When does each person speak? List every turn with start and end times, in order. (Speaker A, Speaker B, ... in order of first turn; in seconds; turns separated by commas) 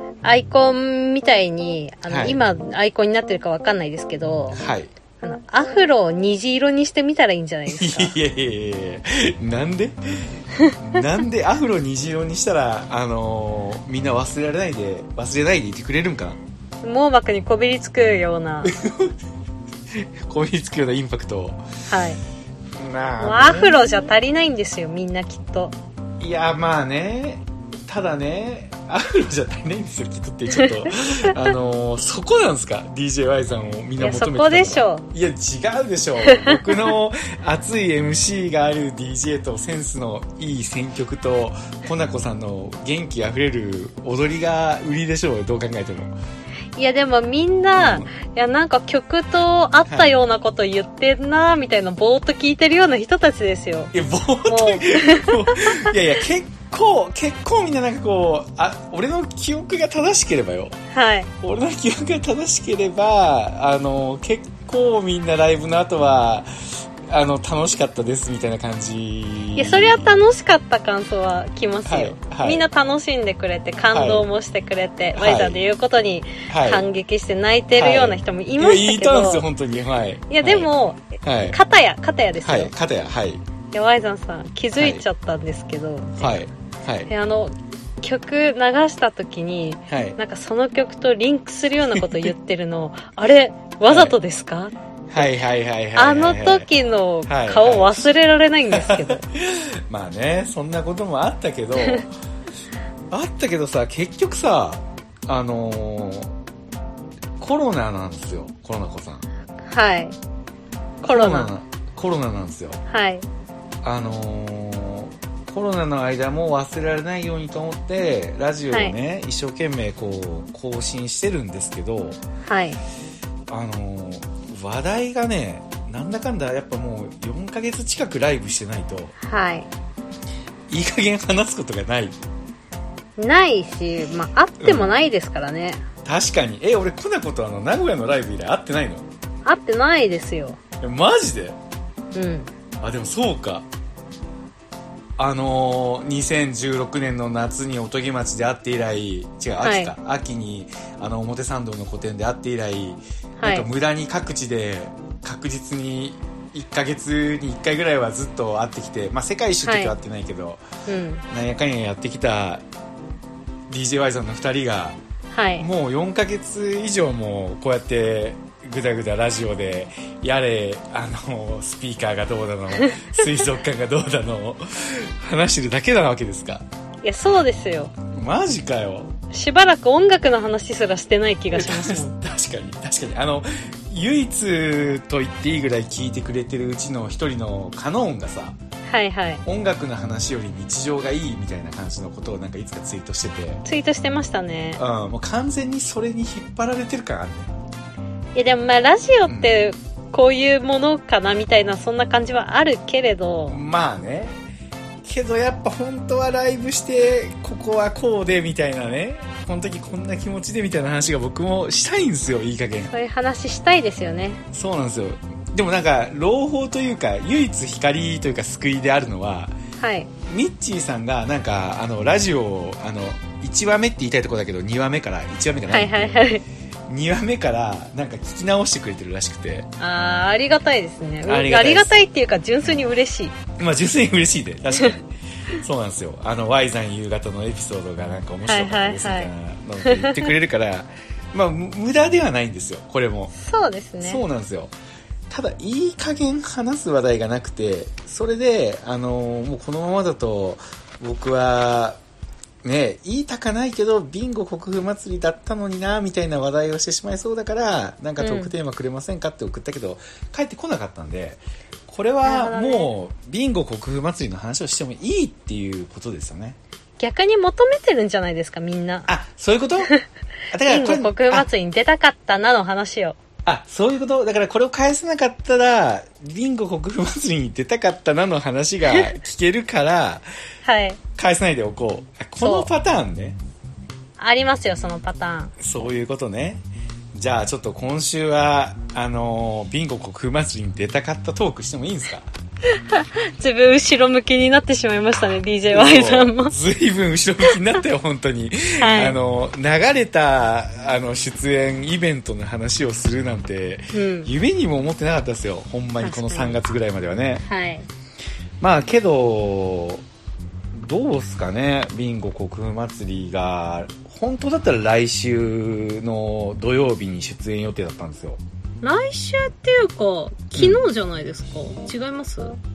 Speaker A: 0.2-4.6, Speaker B: 2.1-2.4, Speaker B: 4.5-4.9, Speaker A: 5.2-8.1, Speaker B: 7.7-16.4, Speaker A: 16.8-18.7, Speaker B: 18.6-19.2, Speaker B: 19.9-21.6, Speaker A: 21.9-22.2, Speaker B: 22.8-24.1, Speaker A: 23.2-25.7, Speaker B: 26.2-46.1, Speaker A: 34.0-35.0, Speaker A: 36.3-36.9, Speaker A: 46.7-53.9, Speaker B: 47.8-48.1, Speaker B: 53.9-60.8, Speaker A: 54.5-55.9, Speaker A: 60.9-61.3, Speaker B: 61.4-70.1, Speaker A: 69.5-79.4, Speaker B: 71.8-72.6, Speaker B: 73.9-74.2, Speaker B: 75.1-75.6, Speaker B: 76.5-76.8, Speaker B: 77.7-81.6, Speaker A: 80.3-82.7, Speaker B: 82.4-83.4, Speaker A: 83.7-86.4, Speaker B: 84.8-85.0, Speaker B: 86.2-87.1, Speaker A: 87.1-95.3, Speaker B: 89.9-90.2, Speaker B: 93.9-94.2, Speaker B: 95.1-96.7, Speaker A: 96.0-99.2, Speaker B: 97.2-98.1, Speaker B: 98.7-102.1, Speaker A: 101.8-102.0, Speaker B: 103.1-106.3, Speaker B: 107.4-109.2, Speaker A: 109.6-110.2, Speaker A: 111.0-111.5, Speaker B: 111.0-112.8, Speaker A: 112.9-113.2, Speaker B: 113.8-122.2, Speaker A: 122.4-122.8, Speaker B: 123.5-129.1, Speaker A: 129.2-129.7, Speaker B: 130.7-132.2, Speaker A: 133.2-135.8, Speaker B: 134.6-134.9, Speaker B: 136.0-139.1, Speaker A: 139.4-140.6, Speaker B: 140.8-141.6, Speaker A: 142.1-142.5, Speaker B: 142.8-143.7, Speaker B: 145.2-160.6, Speaker A: 149.6-149.9, Speaker A: 153.4-153.7, Speaker A: 159.6-159.9, Speaker A: 160.8-161.2, Speaker B: 161.3-162.6, Speaker B: 163.7-165.0, Speaker A: 165.3-165.7, Speaker B: 165.6-176.6, Speaker A: 177.0-177.9, Speaker B: 178.1-179.1, Speaker A: 179.3-182.1, Speaker B: 181.5-188.6, Speaker A: 188.8-189.4, Speaker B: 189.4-193.6, Speaker A: 193.6-194.8, Speaker B: 194.8-197.5, Speaker A: 198.3-203.6, Speaker B: 199.3-199.6, Speaker B: 203.5-204.4, Speaker B: 205.0-212.9, Speaker A: 212.9-214.4, Speaker B: 214.5-219.5, Speaker A: 219.8-220.1, Speaker B: 220.3-226.2, Speaker A: 225.7-226.4, Speaker B: 226.9-229.7, Speaker A: 229.8-233.3, Speaker B: 231.2-232.0, Speaker B: 233.6-243.3, Speaker A: 238.5-239.3, Speaker A: 239.8-240.3, Speaker A: 243.3-244.2, Speaker B: 244.0-244.7, Speaker B: 245.3-252.0, Speaker B: 252.6-266.6, Speaker A: 258.2-258.5, Speaker A: 262.2-262.9, Speaker A: 267.0-269.1, Speaker B: 269.1-269.9, Speaker B: 270.5-271.5, Speaker A: 270.7-273.2, Speaker B: 273.4-280.2, Speaker A: 280.6-281.0, Speaker B: 281.1-283.4, Speaker A: 282.4-282.7, Speaker A: 284.2-285.5, Speaker B: 285.6-286.6, Speaker B: 287.1-292.3, Speaker A: 292.7-296.5, Speaker B: 295.7-307.4, Speaker A: 298.8-299.2, Speaker A: 303.9-304.3, Speaker A: 306.0-306.6, Speaker A: 307.4-307.9, Speaker B: 308.6-310.0, Speaker B: 310.7-318.4, Speaker A: 318.8-322.6, Speaker B: 320.5-320.8